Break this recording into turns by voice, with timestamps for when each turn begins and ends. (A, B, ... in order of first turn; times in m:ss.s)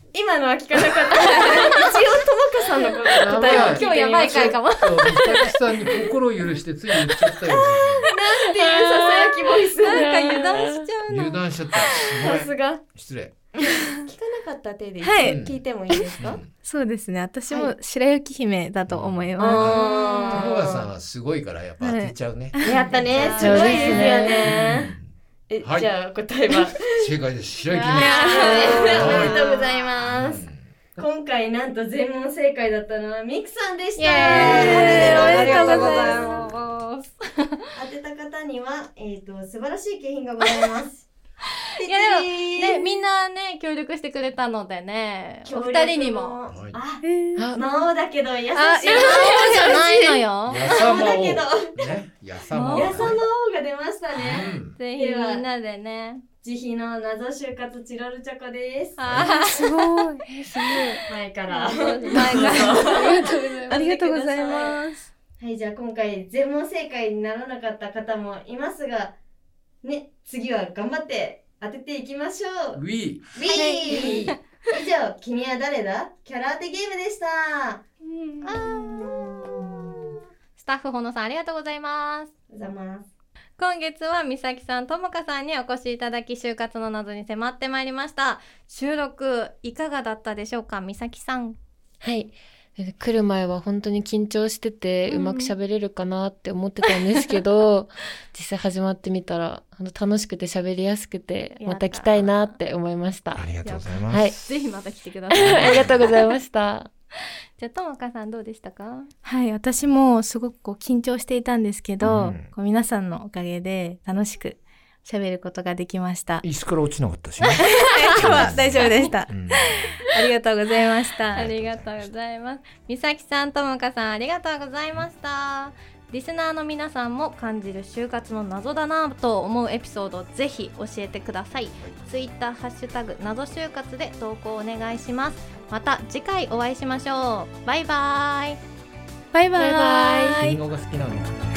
0:00.1-0:04.6 A
0:01.1-0:01.8 B
0:03.2-0:08.1 C
0:03.2-0:05.6 B
0:08.0-0:10.1 A
0:09.8-0:11.4 B
0:09.8-0:10.9 D
0:11.1-0:13.3 C
0:12.0-0:12.8 A
0:13.7-0:16.5 A
0:15.0-0:20.3 E
0:15.2-0:15.6 C
0:16.2-0:16.5 C
0:17.5-0:17.7 A
0:18.9-0:22.6 C
0:19.4-0:20.9 A
0:20.0-0:20.3 B
0:21.8-0:22.9 E
0:22.6-0:24.9 A
0:23.2-0:24.1 B
0:23.2-0:25.9 C
0:23.4-0:24.5 D
0:25.5-0:27.1 A
0:26.9-0:29.4 C
0:27.8-0:30.5 A
0:27.9-0:29.7 B
0:28.2-0:28.9 E
0:30.0-0:30.7 C
0:31.0-0:36.4 A
0:34.0-0:37.5 B
0:34.2-0:35.2 C
0:35.4-0:35.9 E
0:37.8-0:41.1 A
0:41.8-0:42.9 A
0:41.8-0:46.4 B
0:45.5-0:49.8 A
0:46.5-0:46.8 C
0:47.0-0:47.5 E
0:47.4-0:47.6 D
0:48.5-0:50.7 B
0:48.8-0:50.2 E
0:50.5-0:53.2 C
0:50.6-0:51.8 A
0:52.5-0:53.1 B
0:52.7-0:55.4 A
0:54.1-0:54.8 C
0:54.8-0:56.2 B
0:56.4-0:59.0 A
0:59.0-0:59.8 B
0:59.0-0:59.4 C
0:59.5-1:01.0 D
0:59.6-1:00.2 E
1:01.1-1:04.8 A
1:01.5-1:03.8 B
1:02.1-1:04.8 E
1:02.6-1:03.5 D
1:04.4-1:04.8 B
1:05.4-1:09.2 A
1:09.8-1:12.8 A
1:12.7-1:13.4 C
1:13.4-1:17.8 A
1:13.5-1:14.4 B
1:18.4-1:19.4 B
1:18.8-1:19.6 A
1:20.6-1:22.3 B
1:22.5-1:23.1 A
1:23.6-1:31.6 B
1:32.0-1:43.5 D
1:35.1-1:35.5 B
1:41.6-1:42.6 B
1:43.3-1:44.6 C
1:43.6-1:46.2 B
1:44.1-1:44.4 D
1:45.3-1:46.9 D
1:45.4-1:46.0 C
1:47.6-1:49.1 B
1:49.2-1:56.4 E
1:52.0-1:52.5 C
1:56.4-2:00.0 C
1:57.4-2:01.5 E
1:58.1-1:59.2 B
2:01.3-2:02.1 C
2:01.4-2:18.6 B
2:19.3-2:20.6 E
2:19.6-2:20.4 D
2:20.4-2:21.4 C